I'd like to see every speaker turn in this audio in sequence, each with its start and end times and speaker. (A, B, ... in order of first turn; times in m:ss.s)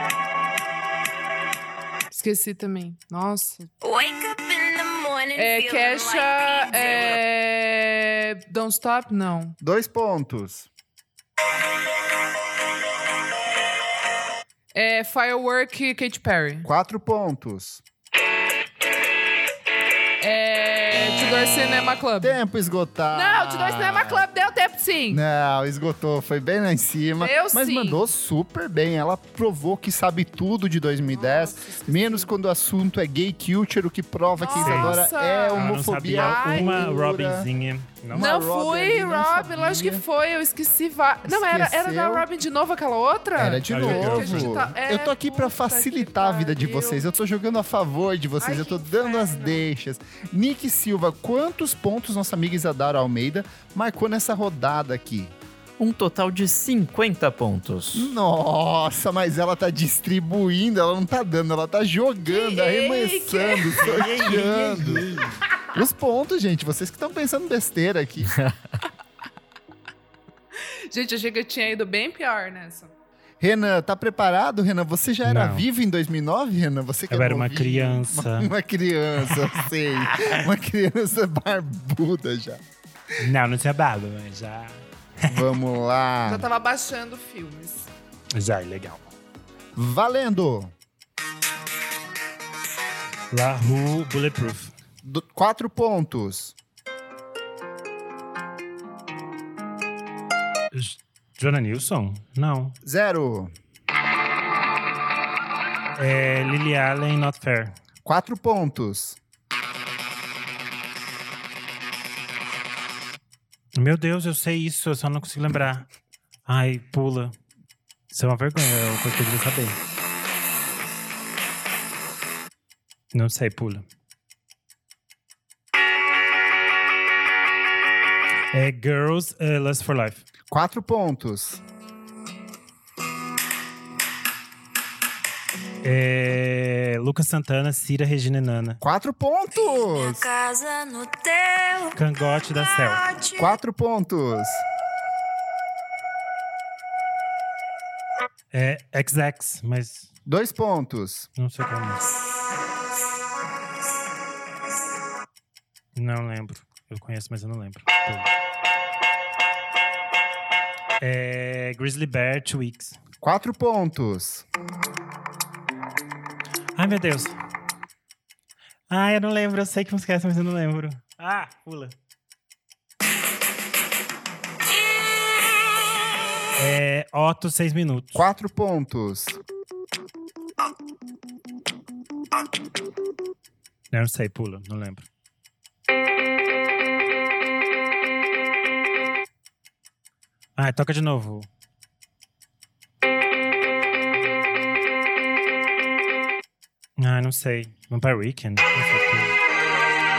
0:02.1-0:03.7 A
0:03.8-0:07.2 B
0:05.4-0:09.6 A
0:09.6-0:10.7 C
0:14.7-0:16.7 A
0:16.6-0:17.8 C
0:20.2-0:22.4 A
0:22.2-0:24.3 C
0:23.1-0:25.2 A
0:25.1-0:37.5 C
0:27.2-0:28.0 A
0:31.1-0:32.3 A
0:34.4-0:36.9 A
0:34.6-0:35.0 D
0:35.6-0:38.2 D
0:38.1-0:40.0 C
0:38.1-0:47.1 A
0:41.2-0:42.3 C
0:43.4-0:55.4 C
0:43.7-0:44.6 D
0:48.4-0:49.6 A
0:55.8-0:58.1 E
0:57.9-1:05.1 C
1:02.3-1:04.0 A
1:03.7-1:05.5 D
1:05.7-1:08.4 C
1:10.9-1:12.9 A
1:13.4-1:22.6 C
1:15.2-1:15.6 D
1:17.1-1:18.5 D
1:19.3-1:19.6 D
1:23.2-1:25.4 D
1:25.2-1:26.5 C
1:26.2-1:27.9 A
1:28.3-1:29.1 D
1:29.8-1:30.7 C
1:33.3-1:34.7 D
1:35.0-1:36.6 C
1:40.7-1:42.8 D
1:42.8-1:43.5 C
1:46.0-1:47.7 D
1:48.0-1:49.2 C
1:53.8-1:55.9 D
1:56.5-1:57.4 D
1:58.1-1:59.8 D
2:03.1-2:03.8 D
2:08.5-2:10.2 D
2:10.5-2:11.6 C
2:15.8-2:18.8 D
2:18.8-2:20.2 C
2:19.6-2:22.0 B
2:22.0-2:23.0 D
2:22.5-2:23.6 B
2:23.4-2:24.6 C
2:28.5-2:30.1 D
2:30.3-2:31.3 C
2:31.4-2:32.1 D
2:36.0-2:38.3 D
2:41.0-2:43.0 D
2:43.2-2:44.5 C
2:46.8-2:47.4 D
2:48.9-2:52.0 D
2:56.6-2:58.2 D
2:58.1-2:59.4 C
3:03.9-3:05.1 D
3:10.6-3:11.5 D
3:17.0-3:19.4 D